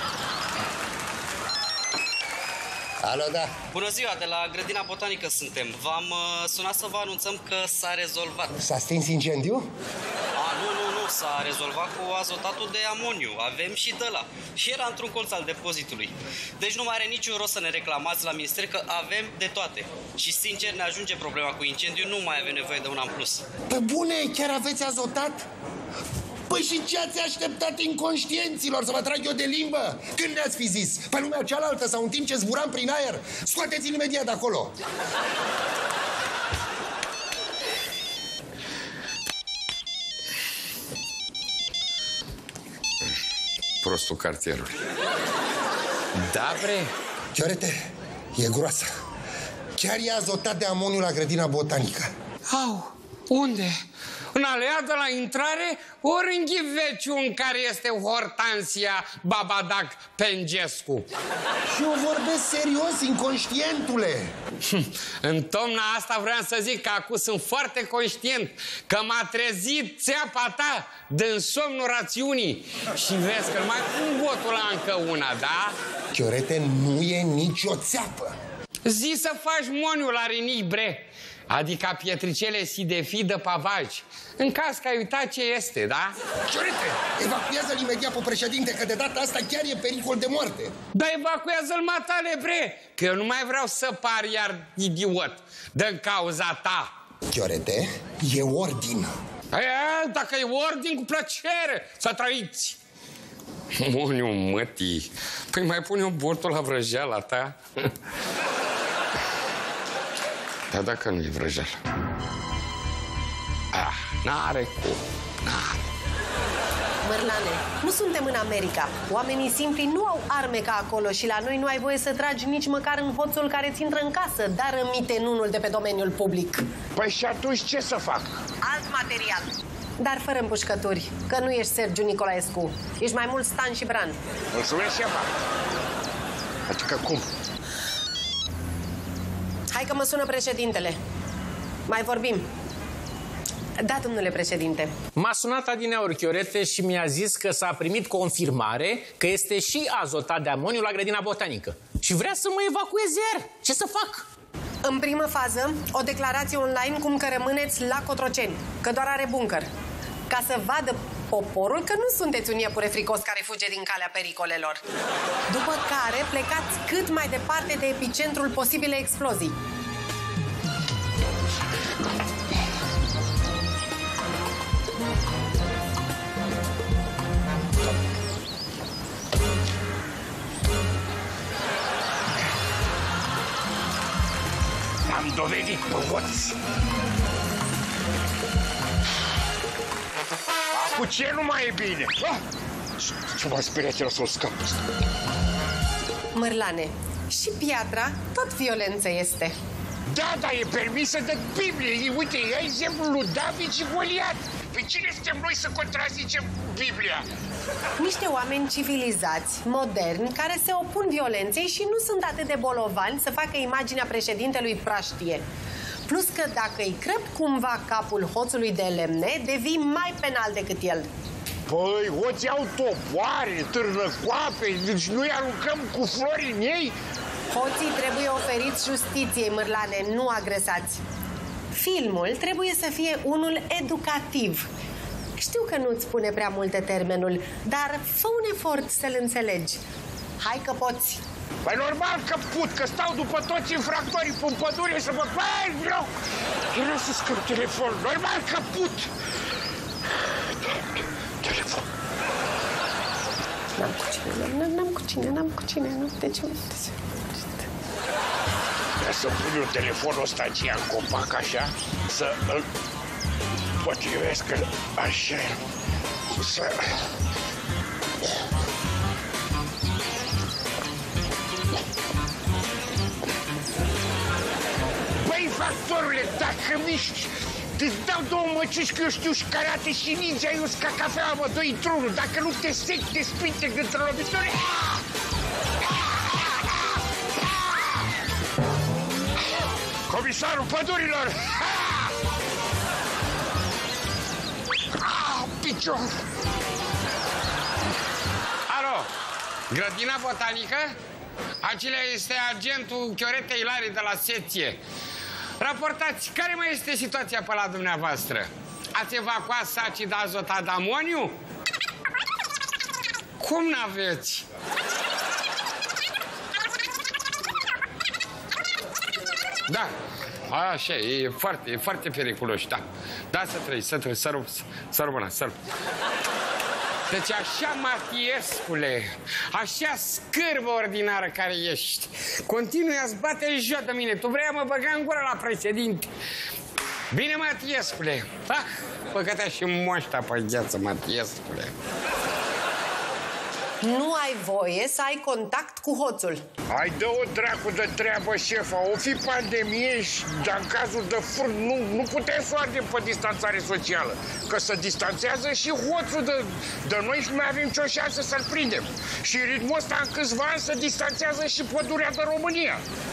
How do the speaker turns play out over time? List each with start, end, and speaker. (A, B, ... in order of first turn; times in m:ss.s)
0:03.0-0:03.5 A
0:03.7-0:08.5 B
0:08.6-0:09.7 A
0:10.4-0:23.5 B
0:23.7-0:25.5 A
0:26.5-0:34.8 A
0:43.8-0:44.8 C
0:46.2-0:46.9 C
0:47.3-0:47.8 A
0:48.4-0:48.9 A
0:49.8-0:52.1 A
0:52.5-0:53.8 C
0:54.3-1:01.1 C
1:01.7-1:04.3 A
1:04.6-1:15.8 C
1:16.1-1:18.4 A
1:18.8-1:26.2 C
1:26.5-1:30.7 A
1:30.9-1:36.9 C
1:37.3-1:39.1 A
1:39.5-1:42.8 C
1:43.7-1:47.9 C
1:50.7-1:51.8 C
1:53.7-1:55.9 C
1:57.0-2:06.7 D
2:07.0-2:08.4 E
2:08.6-2:14.2 D
2:14.5-2:15.3 E
2:16.7-2:17.3 E
2:19.7-2:21.0 D
2:21.9-2:22.5 D
2:23.8-2:24.9 D
2:25.2-2:34.3 F
2:34.8-2:39.7 D
2:40.3-2:44.8 D
2:45.5-2:49.6 D
3:05.1-3:06.6 E
3:10.7-3:12.4 E
3:13.3-3:14.8 E
3:16.3-3:19.6 D
3:20.1-3:27.3 E
3:28.0-3:35.4 D
3:36.1-3:41.1 D
3:41.7-3:47.0 E
3:47.5-3:51.0 D
3:51.7-3:54.7 D
3:55.4-3:59.8 D
4:00.4-4:01.2 D
4:01.6-4:06.1 E
4:06.7-4:09.1 E
4:11.4-4:11.8 E
4:13.8-4:17.7 D
4:19.0-4:22.6 E
4:23.8-4:25.6 E
4:26.4-4:26.9 E
4:35.2-4:45.0 E
4:46.0-4:46.8 E
4:50.1-4:52.1 E
4:55.0-4:56.1 E
4:58.7-4:59.1 C
4:59.7-5:01.0 C
5:01.6-5:04.8 C
5:05.6-5:11.4 C
5:13.4-5:14.5 C
5:19.7-5:19.9 C
5:20.5-5:25.6 C
5:27.1-5:36.1 C
5:37.1-5:41.8 C
5:43.8-5:46.4 D
5:46.7-6:02.8 E